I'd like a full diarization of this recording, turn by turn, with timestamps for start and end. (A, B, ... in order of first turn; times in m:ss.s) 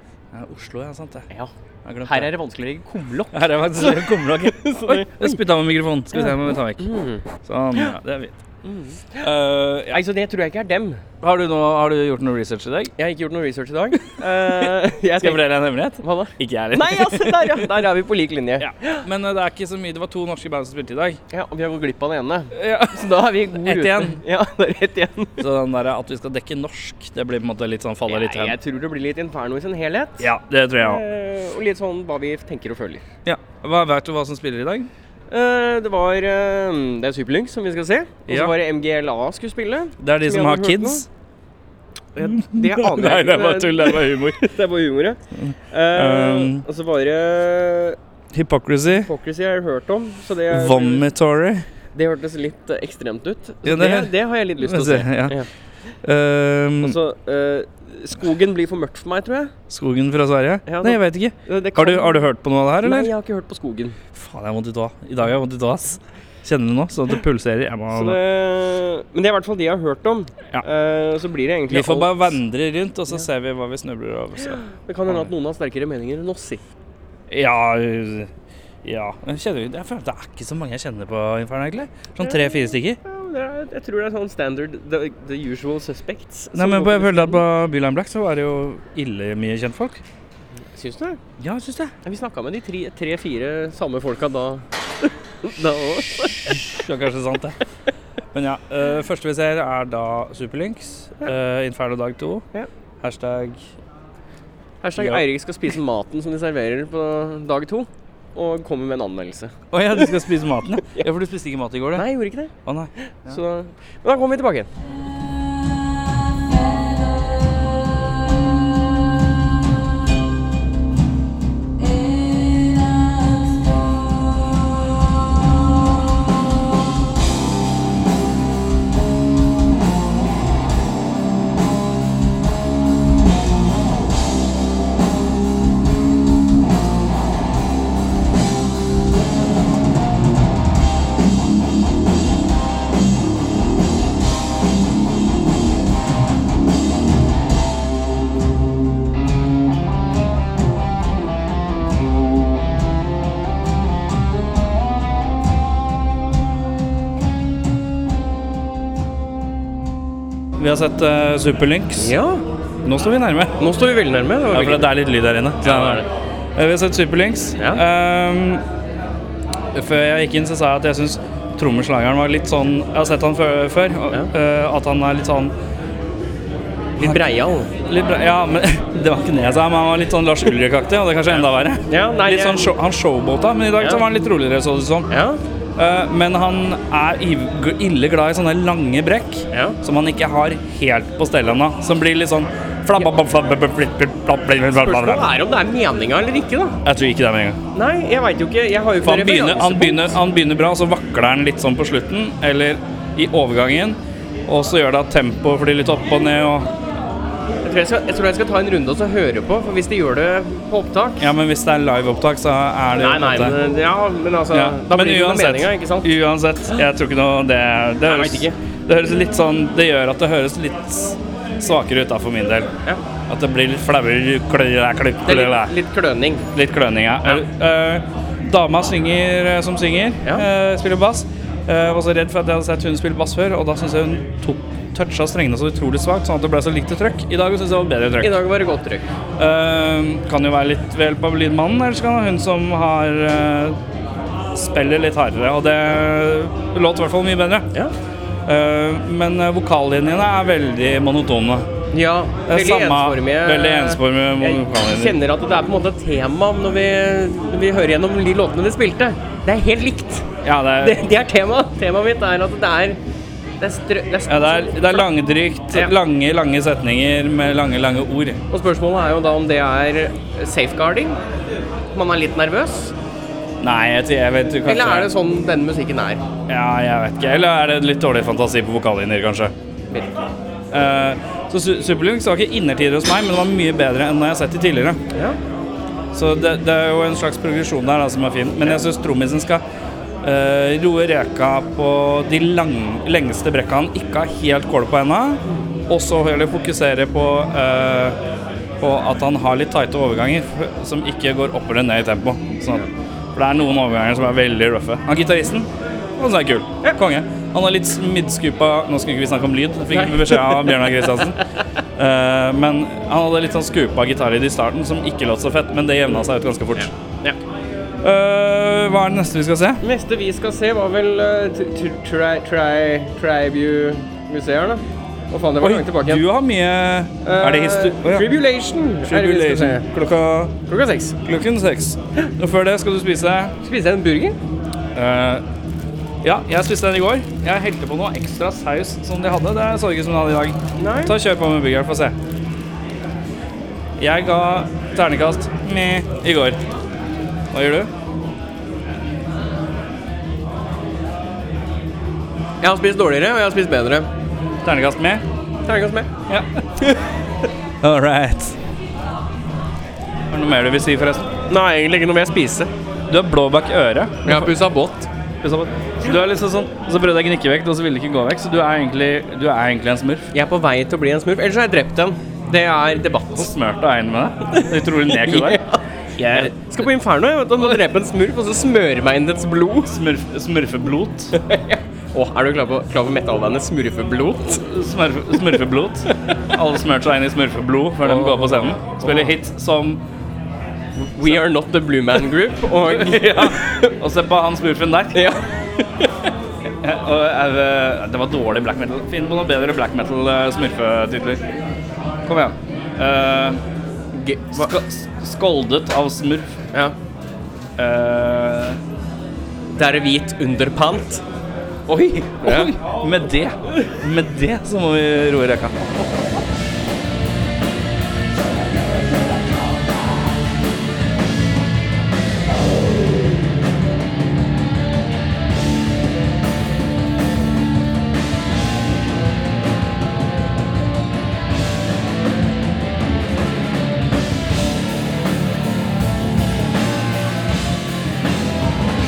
0:00.3-0:01.3 A
0:01.8-0:02.3 A
0:02.0-0:05.4 B
0:03.3-0:08.4 A
0:06.1-0:08.0 B
0:08.6-0:09.3 B
0:09.2-0:10.0 A
0:09.9-0:11.0 B
0:11.2-0:12.9 A
0:13.0-0:19.1 B
0:14.0-0:17.7 A
0:18.6-0:21.2 A
0:21.3-0:25.4 B
0:22.6-0:24.2 A
0:25.4-0:28.6 A
0:28.1-0:30.3 B
0:30.2-0:31.0 A
0:30.8-0:33.0 B
0:33.2-0:34.9 A
0:35.3-0:41.1 B
0:38.3-0:38.5 A
0:40.0-0:41.1 A
0:42.2-0:48.0 B
0:42.3-0:44.5 A
0:45.4-0:46.6 A
0:48.3-0:49.1 A
0:48.9-0:51.0 B
0:50.5-0:51.7 A
0:52.0-0:55.5 B
0:53.6-0:55.4 A
0:56.0-0:57.0 A
0:56.8-0:59.5 B
0:59.7-1:03.1 A
1:00.7-1:02.3 B
1:02.8-1:04.0 B
1:04.2-1:08.2 A
1:07.9-1:12.3 B
1:11.7-1:15.3 A
1:14.4-1:16.6 B
1:17.3-1:18.3 A
1:18.8-1:23.0 A
1:22.2-1:27.4 B
1:26.6-1:30.0 A
1:30.7-1:31.2 B
1:31.4-1:31.9 A
1:32.0-1:36.6 B
1:36.5-1:37.6 A
1:38.3-1:42.4 A
1:43.0-1:43.6 A
1:44.8-1:50.2 B
1:45.0-1:45.2 A
1:49.7-1:52.1 A
1:50.8-1:51.1 B
1:52.0-1:52.5 B
1:52.6-1:53.4 A
1:53.0-1:54.7 B
2:40.6-2:42.1 A
2:42.0-2:42.4 B
2:42.8-2:43.6 A
2:43.6-2:44.9 B
2:44.5-2:46.0 A
2:45.6-2:46.1 B
2:46.6-2:48.6 A
2:47.6-2:47.8 B
2:49.7-2:55.5 A
2:57.0-2:57.7 B
2:57.8-3:05.1 A
3:01.9-3:02.7 B
3:03.8-3:04.0 B
3:05.1-3:05.4 B
3:05.8-3:15.3 A
3:09.5-3:09.8 B
3:14.8-3:16.8 B
3:16.8-3:17.6 A
3:17.7-3:20.1 B
3:19.0-3:26.7 A
3:27.6-3:31.3 B
3:31.2-3:33.6 A
3:33.0-3:36.1 B
3:34.5-3:42.7 A
3:38.0-3:38.6 B
3:43.3-3:45.7 A
3:45.2-3:46.4 B
3:46.5-3:58.4 A
3:58.2-3:59.1 B
3:59.4-4:03.8 A
4:04.5-4:07.7 A
4:08.5-4:11.7 A
4:11.9-4:20.3 B
4:12.5-4:15.2 A
4:20.4-4:21.0 A
4:20.8-4:23.0 B
4:23.6-4:25.1 B
4:24.3-4:28.4 A
4:28.5-4:31.2 B
4:31.9-4:32.9 B
4:33.6-4:35.1 A
4:34.6-4:36.2 B
4:36.5-4:39.5 A
4:39.9-4:40.3 B
4:40.7-4:45.0 A
4:45.1-4:45.4 B
4:46.1-4:49.6 A
4:50.2-4:58.2 A
4:58.8-5:11.4 A
5:09.9-5:11.2 B
5:12.0-5:16.9 A
5:16.8-5:17.4 B
5:18.0-5:19.8 A
5:19.8-5:26.2 B
5:25.6-5:28.3 A
5:27.2-5:29.9 B
5:29.1-5:30.5 A
5:30.7-5:31.2 B
5:31.2-5:33.5 A
5:33.6-5:34.4 B
5:35.0-5:35.4 A
5:36.2-5:42.2 A
5:40.8-5:41.2 B
5:44.0-5:46.6 A
5:47.5-5:47.9 A
5:52.6-5:54.1 B
5:54.6-5:55.2 A
5:55.6-5:56.1 B
5:56.3-5:56.8 A
5:57.8-5:58.6 A
6:00.3-6:01.3 A
6:01.5-6:02.7 B
6:03.1-6:04.6 A
6:04.2-6:05.1 B
6:05.4-6:10.3 A
6:10.3-6:13.5 B
6:13.4-6:15.6 A
6:14.6-6:19.9 B
6:16.2-6:16.7 A
6:19.9-6:21.4 A
6:21.3-6:24.6 B
6:24.5-6:30.0 A
6:28.0-6:29.4 B
6:31.0-6:34.0 B
6:32.9-6:35.2 A
6:35.1-6:36.3 B
6:36.8-6:41.4 A
6:42.3-6:43.6 A
6:44.1-6:44.7 B
6:44.5-6:46.6 A
6:47.8-6:48.8 A
6:49.7-6:51.2 B
6:51.9-6:55.8 A
6:52.4-6:52.7 B